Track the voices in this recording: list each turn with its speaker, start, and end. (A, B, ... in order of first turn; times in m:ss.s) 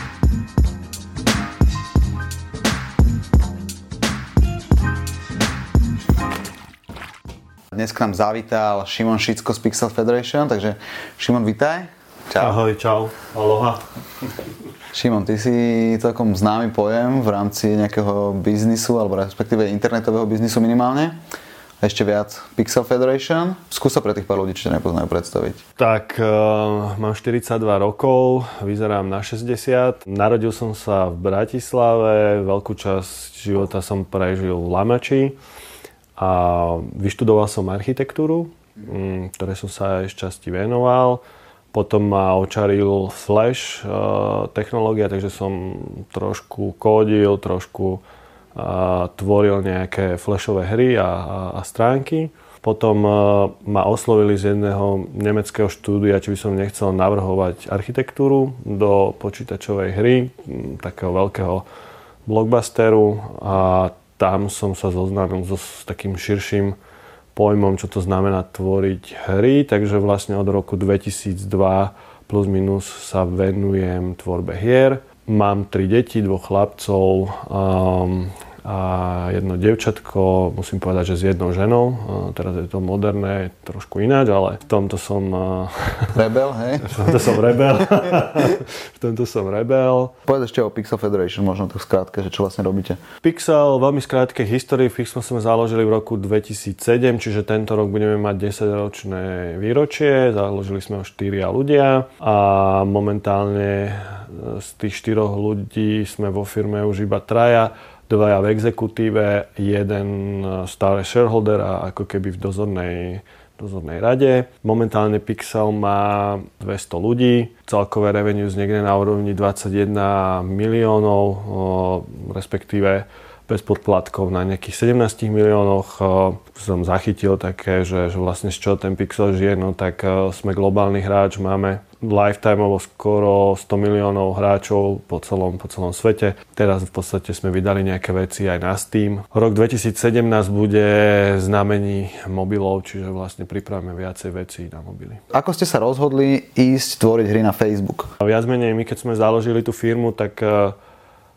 0:07.7-0:12.6 A
0:12.4-0:13.8 B
0:14.9-0:21.2 A
0:21.8-0:25.6 A
0:25.8-0:35.4 B
0:36.2-0:48.0 B
0:48.6-1:01.6 B
1:02.3-1:06.8 B
1:07.3-1:26.2 B
1:26.2-1:27.0 A
1:26.8-1:30.1 B
1:30.3-1:33.0 A
1:33.2-2:25.2 B
2:25.3-2:28.1 A
2:28.2-2:30.8 B